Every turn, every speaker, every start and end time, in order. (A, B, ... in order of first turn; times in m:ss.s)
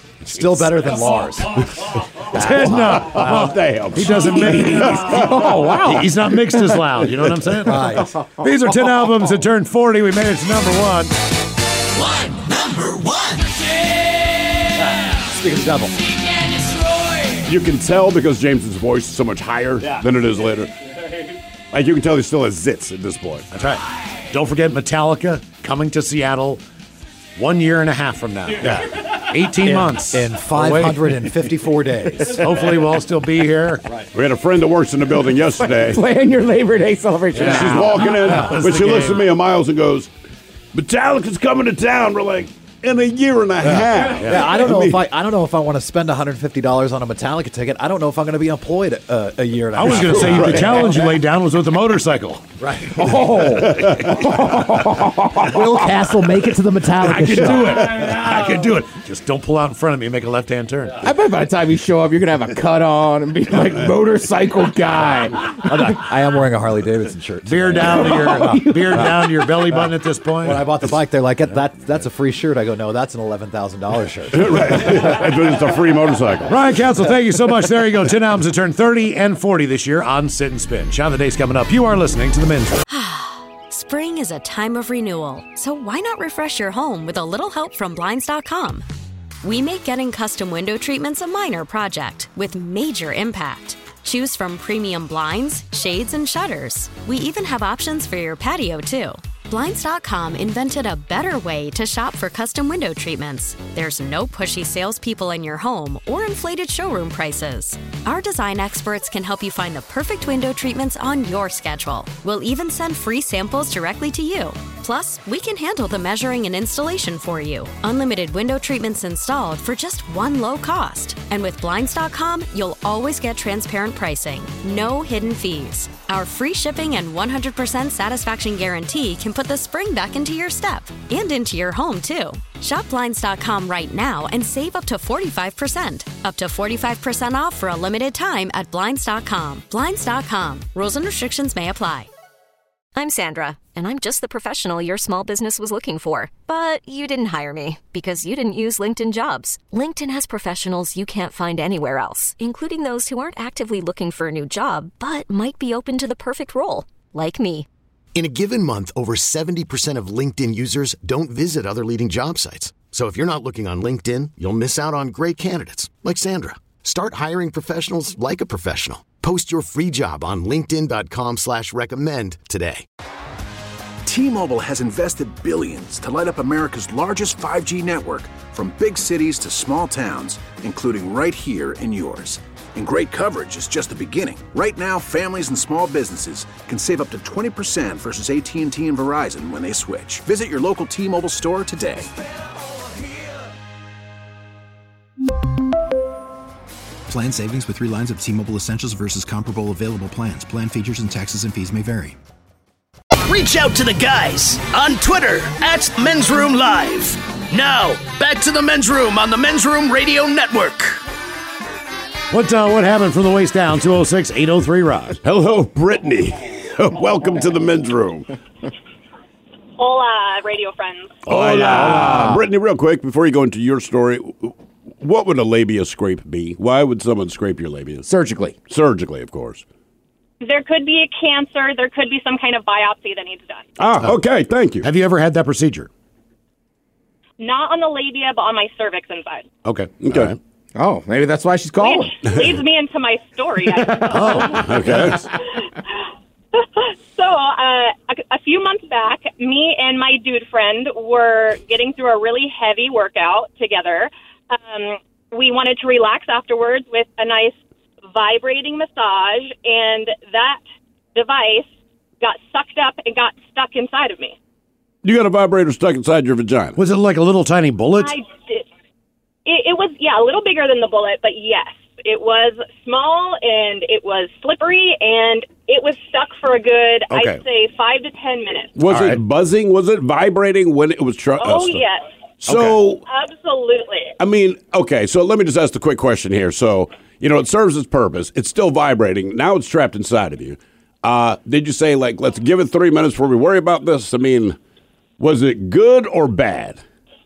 0:00.2-0:01.6 A
0:00.3-0:00.8 B
0:02.3-0:11.1 B
0:02.3-0:03.5 A
0:03.1-0:05.9 C
0:05.1-0:06.6 D
0:07.6-0:08.3 A
0:15.0-0:16.0 A
0:17.4-0:20.7 C
0:21.7-0:23.5 C
0:23.5-0:26.6 B
0:27.4-0:31.3 B
0:29.5-0:32.6 A
0:32.2-0:33.8 B
0:34.1-0:36.0 C
0:35.7-0:38.0 D
0:37.3-0:39.2 B
0:37.4-0:40.1 C
0:38.2-0:38.6 A
0:40.7-0:45.0 C
0:43.6-0:44.5 B
0:43.7-0:51.2 A
0:49.7-0:52.6 B
0:50.0-0:50.6 C
0:52.6-0:53.1 A
0:52.9-0:55.9 D
0:53.6-0:54.0 B
0:55.4-0:58.2 A
0:57.0-1:01.0 B
1:01.0-1:05.9 D
1:05.6-1:09.9 A
1:07.4-1:10.7 B
1:07.9-1:09.2 D
1:10.4-1:15.2 A
1:14.3-1:16.6 C
1:16.5-1:22.8 B
1:22.9-1:28.8 E
1:29.4-2:22.1 E
2:22.9-2:37.7 F
2:38.1-2:52.8 G
2:54.0-3:12.1 H
3:17.1-3:22.1 I
3:23.2-3:31.0 J
3:32.3-3:35.2 B
3:35.2-3:38.3 C
3:39.8-3:41.2 K
3:41.2-3:48.0 C
3:41.3-3:42.3 B
3:41.8-3:42.4 D
3:48.0-3:48.6 D
3:48.7-3:49.6 C
3:50.4-3:53.6 K
3:53.8-3:54.9 C
3:54.8-3:55.9 B
3:57.4-3:59.5 K
3:59.6-4:00.4 B
4:00.0-4:00.3 C
4:00.7-4:02.1 D
4:01.8-4:04.5 K
4:03.9-4:05.2 B
4:04.5-4:05.2 C
4:05.6-4:20.6 K
4:21.1-4:21.7 K
4:22.2-4:24.4 K
4:25.0-4:26.8 C
4:26.8-4:28.1 B
4:28.0-4:28.6 K
4:29.4-4:38.7 K
4:37.1-4:37.4 B
4:38.8-4:41.8 C
4:38.8-4:39.2 B
4:41.4-4:42.0 K
4:42.4-4:43.0 C
4:42.4-4:42.8 B
4:43.0-4:44.1 K
4:44.2-4:54.6 C
4:55.2-4:56.8 C